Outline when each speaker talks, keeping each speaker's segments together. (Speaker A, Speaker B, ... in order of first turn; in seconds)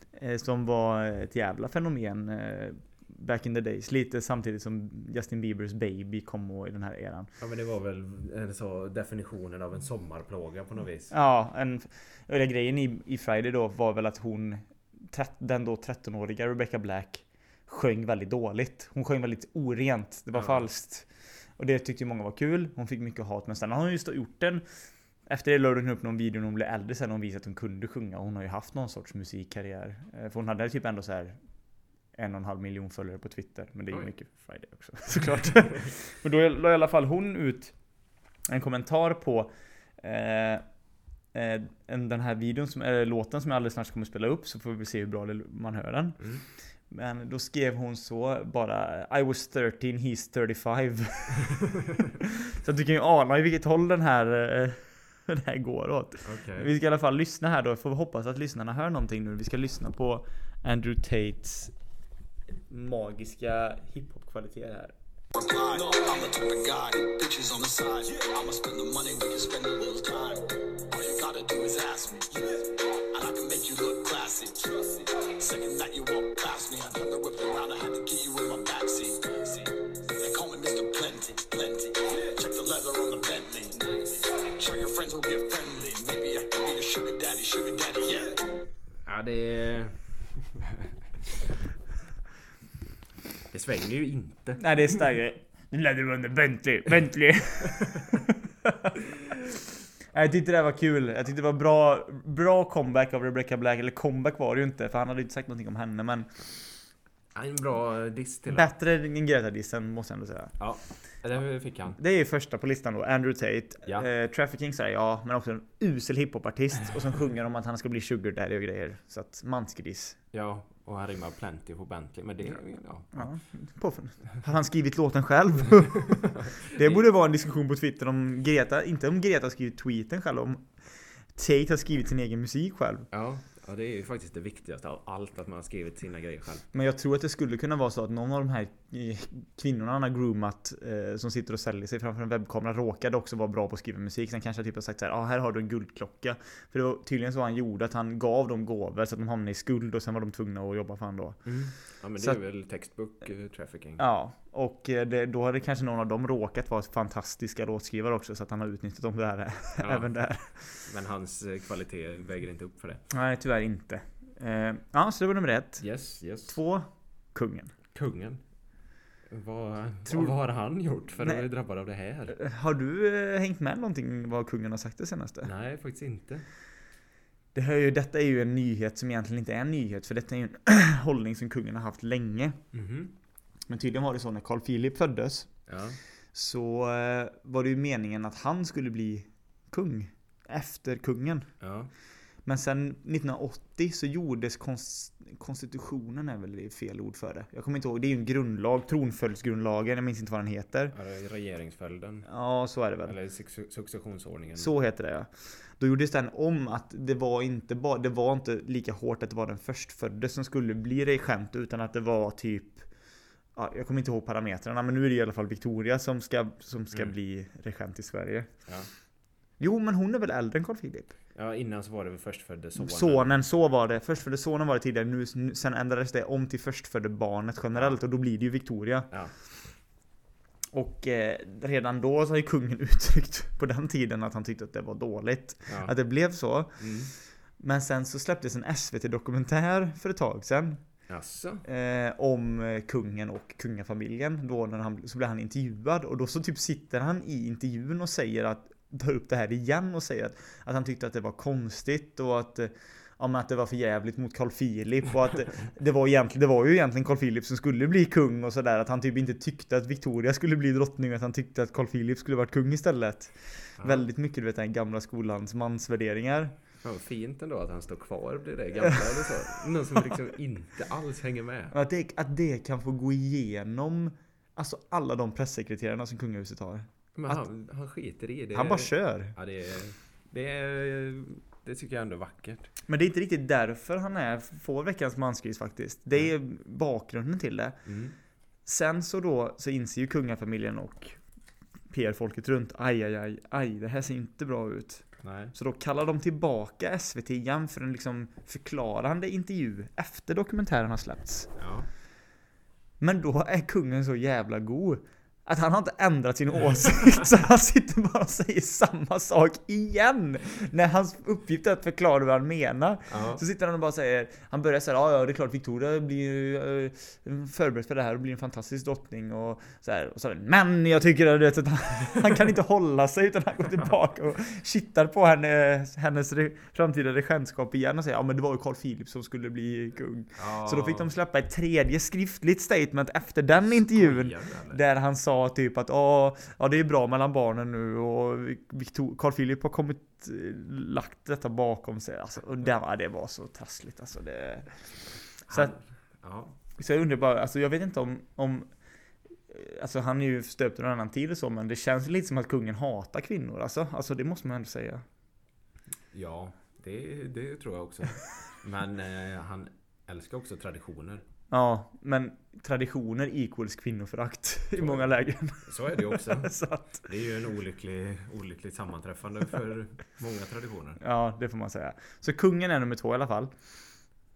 Speaker A: 0.1-7.3, 11.1-24.6, 25.3-31.4, 32.1-37.7, 38.5-40.6, 41.3-46.2, 46.9-51.6, 52.2-61.7, 62.7-64.9, 94.6-98.9, 100.1-106.3, 108.5-110.6, 112.0-120.2, 123.1-133.1, 136.7-151.5, 154.0-160.8, 163.1-165.8, 166.5-167.7, 170.1-170.3, 172.3-175.5, 177.5-182.6, 183.7-185.5, 186.3-191.5, 192.5-200.9, 202.3-203.2, 204.6-212.9, 213.6-218.5, 219.6-221.1, 222.8-229.1, 230.7-236.9, 237.6-240.8, 241.7-266.5, 271.7-277.4, 278.5-279.3, 282.9-287.8, 288.7-291.2, 291.9-301.5, 303.0-344.8, 346.8-348.7, 349.5-355.1, 361.5-367.0, 371.0-373.6
Speaker B: 7.4-11.1, 20.4-20.6, 56.2-56.7, 89.0-90.9, 93.5-94.7, 107.3-108.7, 110.6-112.0, 120.3-123.3, 126.2-127.1, 133.1-136.7, 151.5-154.0, 159.8-160.1, 160.8-163.0, 165.8-166.6, 167.9-168.4, 169.3-172.4, 175.4-176.5, 182.7-183.1, 185.7-186.0, 191.6-191.9, 200.9-202.3, 203.1-204.7, 221.3-223.3, 235.7-235.9, 236.8-237.1, 241.1-241.7, 263.8-264.0, 266.8-271.8, 277.1-282.7, 287.9-288.2, 295.2-295.5, 301.6-301.9, 313.1-313.4, 330.4-331.1, 333.7-334.8, 345.5-346.6, 356.1-361.2, 364.8-371.0
Speaker C: 65.4-88.4